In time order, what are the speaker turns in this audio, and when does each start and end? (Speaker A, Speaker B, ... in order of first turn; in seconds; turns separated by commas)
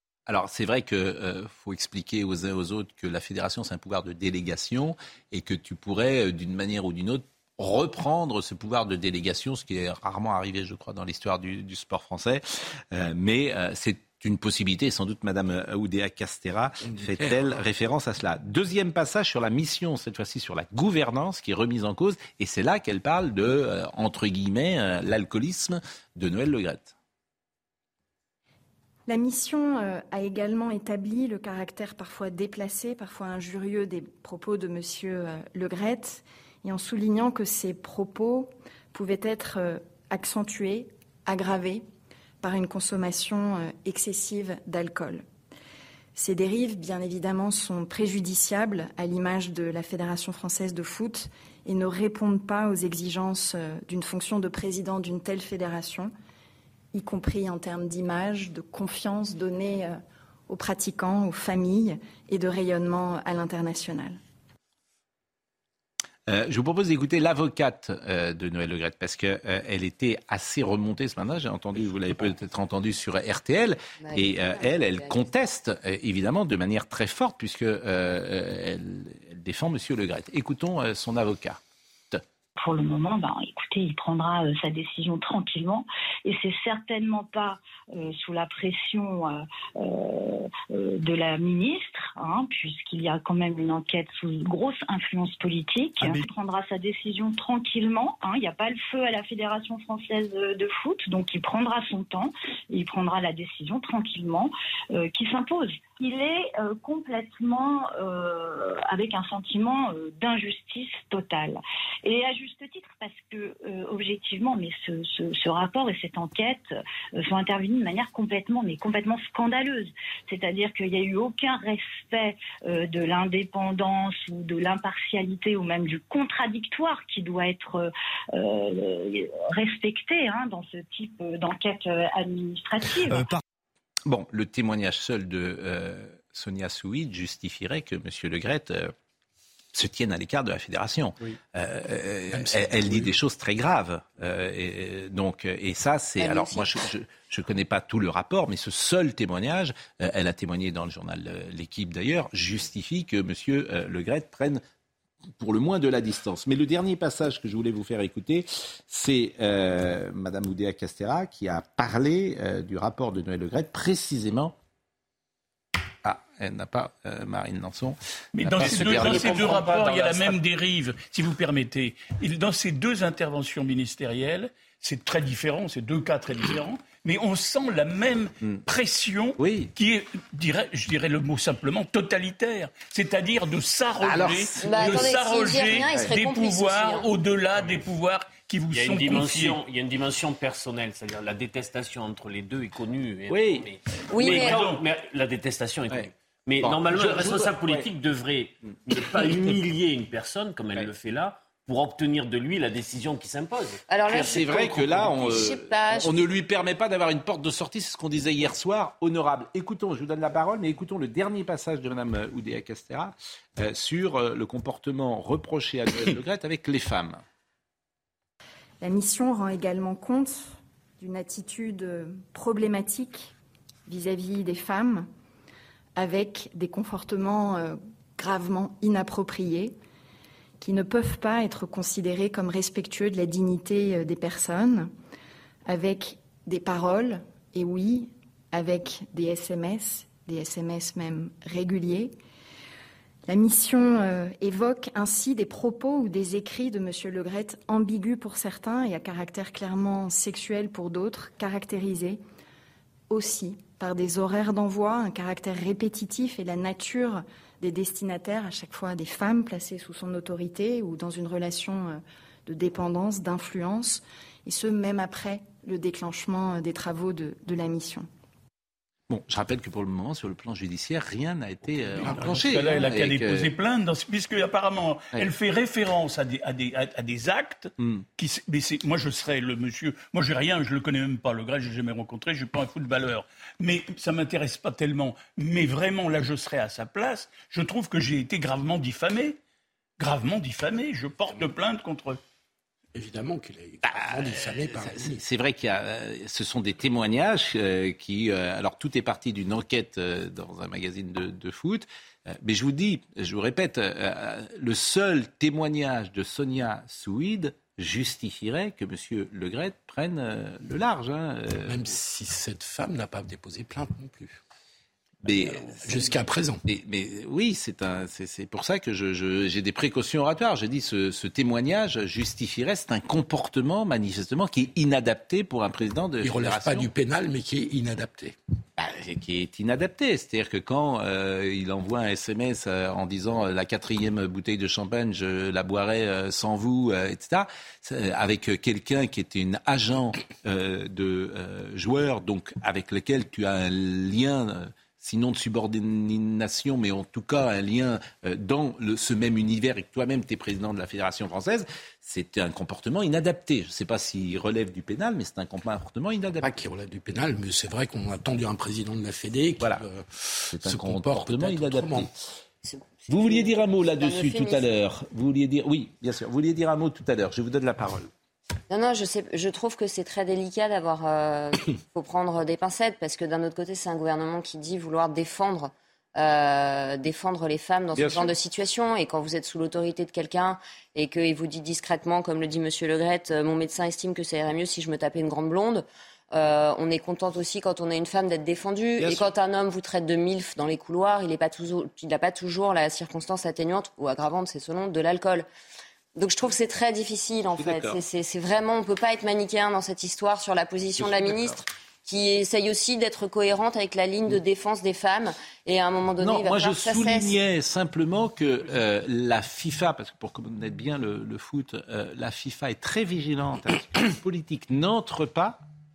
Speaker A: 0.3-26.9, Speaker B: 16.8-17.6, Speaker C: 29.1-41.8, Speaker C: 42.4-45.2, Speaker C: 46.1-56.1, Speaker C: 56.9-64.2, Speaker A: 66.3-81.6, Speaker D: 74.0-75.3, Speaker E: 82.6-116.7, Speaker E: 117.2-133.3, Speaker A: 134.1-138.9, Speaker A: 139.7-154.6, Speaker B: 142.3-143.1, Speaker D: 146.2-146.8, Speaker A: 155.4-164.5, Speaker A: 166.0-167.9, Speaker F: 168.3-189.6, Speaker A: 168.5-169.5, Speaker G: 168.5-170.4, Speaker A: 179.4-179.7, Speaker A: 184.0-185.0, Speaker D: 184.6-187.1, Speaker G: 188.7-205.4, Speaker A: 193.3-193.7, Speaker D: 194.1-194.6, Speaker F: 194.4-194.8, Speaker A: 196.6-197.9, Speaker D: 203.9-206.3, Speaker A: 204.1-217.2, Speaker C: 218.8-223.3, Speaker C: 223.9-225.1, Speaker C: 226.0-229.8, Speaker C: 230.6-234.9, Speaker C: 235.7-242.1, Speaker C: 243.3-252.2, Speaker C: 253.1-268.1, Speaker A: 269.1-273.5, Speaker B: 272.0-272.4, Speaker F: 272.0-289.4, Speaker A: 277.8-278.0, Speaker F: 290.0-292.2, Speaker B: 292.9-295.2, Speaker A: 293.8-311.9, Speaker B: 311.6-314.4, Speaker B: 315.2-316.6, Speaker A: 315.2-326.9, Speaker B: 326.2-328.3, Speaker A: 328.8-356.6, Speaker B: 356.4-362.1, Speaker A: 360.5-362.1, Speaker D: 362.6-364.7, Speaker A: 363.1-368.1, Speaker D: 368.7-395.5, Speaker A: 377.9-378.3, Speaker A: 389.0-389.3, Speaker D: 396.1-407.4, Speaker A: 397.6-398.0, Speaker A: 401.0-401.6, Speaker A: 406.2-415.6